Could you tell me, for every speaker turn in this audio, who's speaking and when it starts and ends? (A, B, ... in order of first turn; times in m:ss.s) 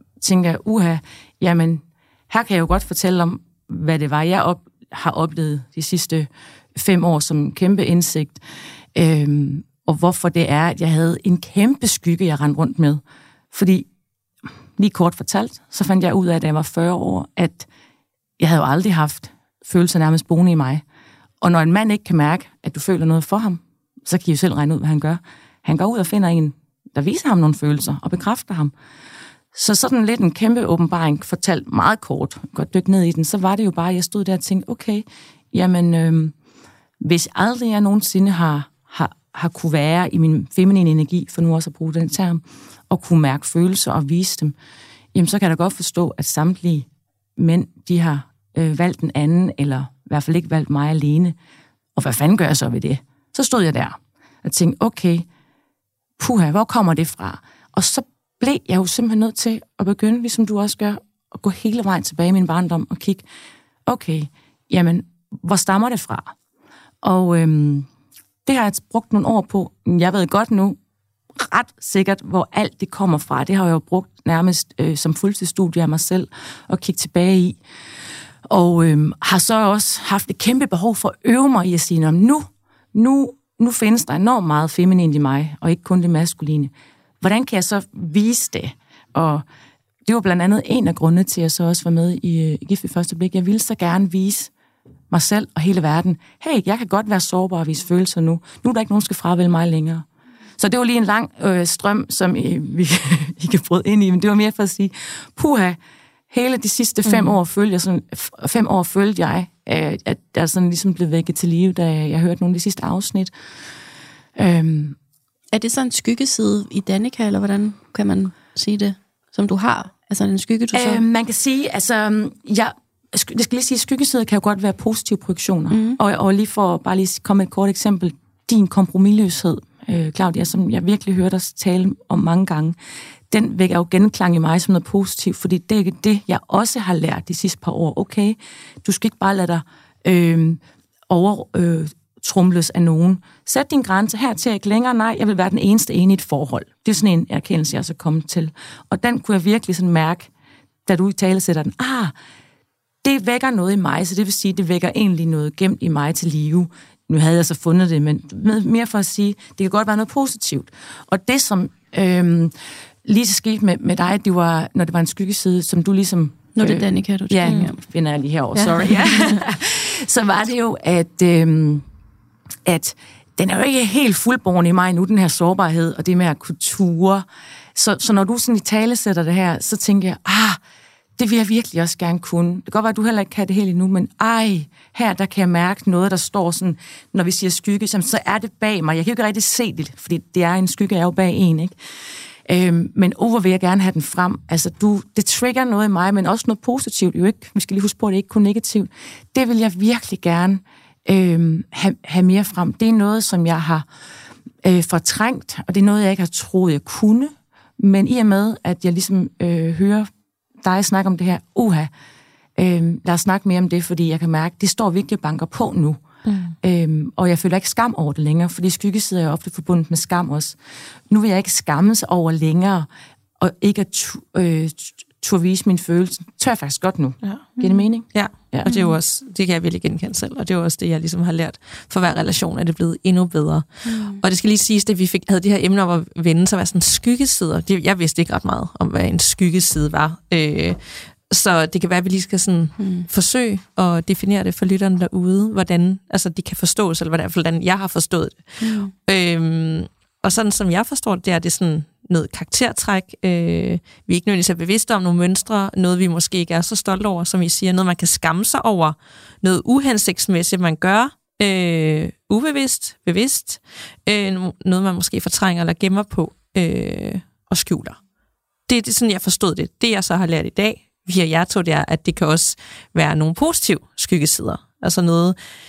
0:00.2-0:08.4 A
0:09.0-0:13.0 A
0:13.5-0:13.9 A
0:14.8-0:17.7 A
0:18.4-0:20.8 A
0:21.4-0:28.7 A
0:29.5-0:36.4 A
0:37.0-0:44.6 A
0:45.1-0:51.4 A
0:52.0-0:55.3 A
0:56.2-1:03.2 A
1:03.9-1:06.3 A
1:07.0-1:07.9 A
1:08.5-1:10.8 A
1:11.4-1:17.6 A
1:18.5-1:29.4 A
1:30.1-1:34.5 A
1:35.1-1:40.1 A
1:40.6-1:45.8 A
1:46.3-1:53.3 A
1:54.4-1:55.0 A
1:55.5-2:01.0 B
2:00.7-2:12.8 A
2:05.7-2:06.0 B
2:13.3-2:30.3 A
2:30.9-2:32.1 A
2:33.0-2:42.5 A
2:43.0-2:51.8 A
2:46.6-2:47.8 B
2:48.6-2:49.2 C
2:52.6-3:00.6 A
3:01.2-3:11.7 A
3:12.5-3:23.9 A
3:24.6-3:30.1 A
3:30.6-3:31.9 A
3:32.6-3:36.0 A
3:36.3-3:36.5 C
3:36.6-3:40.6 A
3:41.1-3:42.9 A
3:43.4-3:48.8 A
3:47.6-3:47.9 B
3:48.1-4:28.0 C
3:48.7-3:48.9 B
3:53.8-3:54.2 B
4:02.8-4:03.1 B
4:08.6-4:08.9 B
4:28.7-4:35.4 C